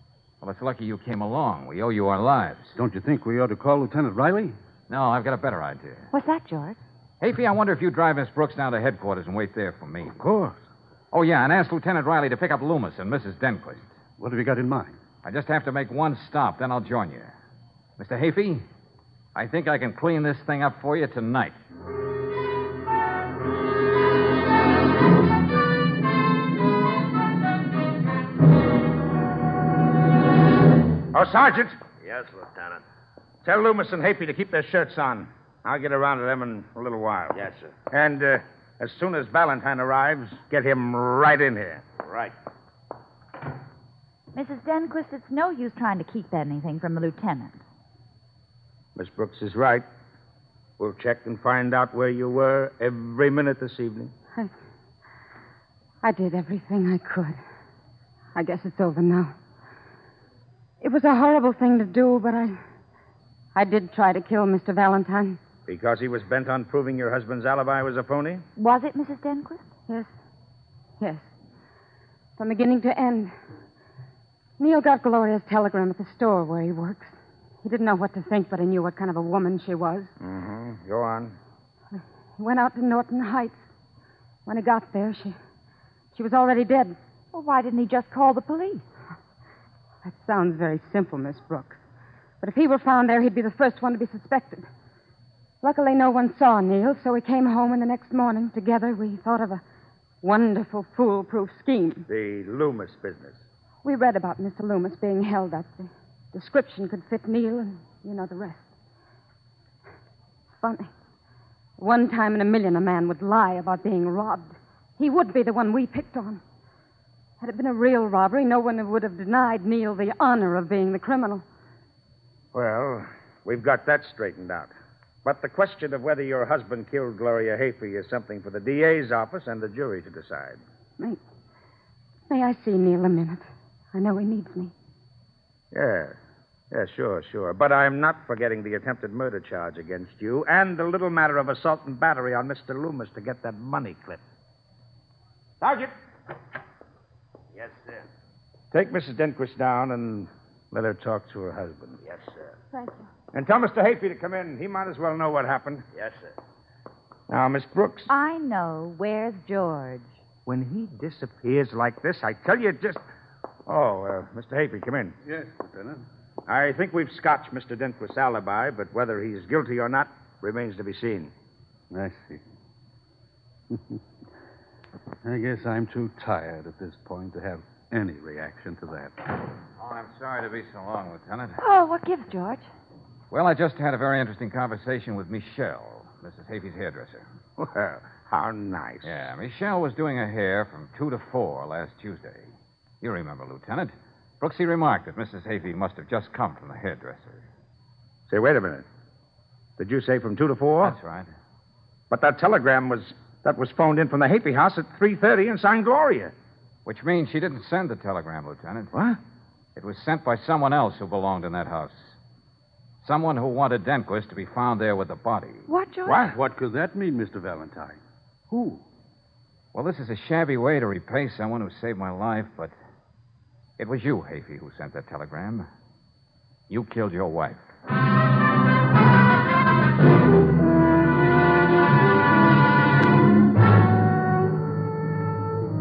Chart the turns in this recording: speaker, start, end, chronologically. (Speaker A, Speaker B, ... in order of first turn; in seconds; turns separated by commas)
Speaker A: 0.4-2.8, Speaker B: 2.7-4.5, Speaker A: 4.9-6.1, Speaker C: 6.1-6.8, Speaker A: 7.2-10.2, Speaker B: 10.0-10.6, Speaker A: 11.1-13.9, Speaker B: 14.2-15.0, Speaker A: 15.2-17.3, Speaker A: 18.0-18.6, Speaker A: 19.3-21.6, Speaker D: 31.1-31.8, Speaker E: 32.0-32.8, Speaker D: 33.4-37.4, Speaker E: 37.3-37.7, Speaker D: 37.9-41.8, Speaker E: 42.0-42.3, Speaker C: 44.3-47.6, Speaker D: 49.0-49.8, Speaker D: 50.8-54.1, Speaker F: 56.0-57.4, Speaker F: 58.3-59.3, Speaker F: 60.8-62.6, Speaker F: 63.5-65.4, Speaker D: 65.7-68.4, Speaker C: 68.6-69.6, Speaker F: 71.0-71.3, Speaker F: 72.4-73.3, Speaker F: 74.6-80.1, Speaker D: 80.2-81.3, Speaker F: 82.4-83.7, Speaker F: 84.5-85.3, Speaker F: 86.1-87.0, Speaker C: 87.3-88.8, Speaker F: 90.0-91.8, Speaker F: 92.4-94.7, Speaker F: 95.6-99.6, Speaker F: 100.2-102.0, Speaker D: 102.1-103.4, Speaker F: 103.8-108.7, Speaker F: 110.5-110.9, Speaker F: 111.8-116.4, Speaker F: 117.4-121.4, Speaker D: 122.5-124.7, Speaker D: 125.2-130.6, Speaker F: 132.3-134.7, Speaker D: 135.7-136.2, Speaker D: 136.7-144.2, Speaker D: 145.6-145.9, Speaker E: 147.5-148.1, Speaker D: 148.7-152.0, Speaker E: 152.0-152.5, Speaker F: 152.7-153.0, Speaker D: 153.3-155.8, Speaker E: 155.9-156.3, Speaker D: 157.3-158.1, Speaker C: 158.1-160.1, Speaker D: 160.4-163.0, Speaker D: 163.7-165.1, Speaker B: 165.2-166.0, Speaker D: 166.5-171.3, Speaker B: 171.9-172.4, Speaker B: 173.7-174.0, Speaker B: 175.2-179.1, Speaker A: 179.8-181.6, Speaker C: 181.6-182.7, Speaker A: 183.3-187.2, Speaker D: 187.6-189.1, Speaker A: 189.0-197.4, Speaker D: 198.3-198.8, Speaker D: 199.8-200.9, Speaker A: 200.8-201.3, Speaker D: 202.1-206.3, Speaker A: 206.8-208.9, Speaker D: 208.9-209.2, Speaker A: 209.8-212.1, Speaker A: 213.0-215.7, Speaker C: 215.7-216.2, Speaker D: 216.1-216.3, Speaker B: 216.2-218.0, Speaker B: 218.5-218.8, Speaker A: 219.7-222.7, Speaker A: 223.8-225.7, Speaker A: 226.7-227.6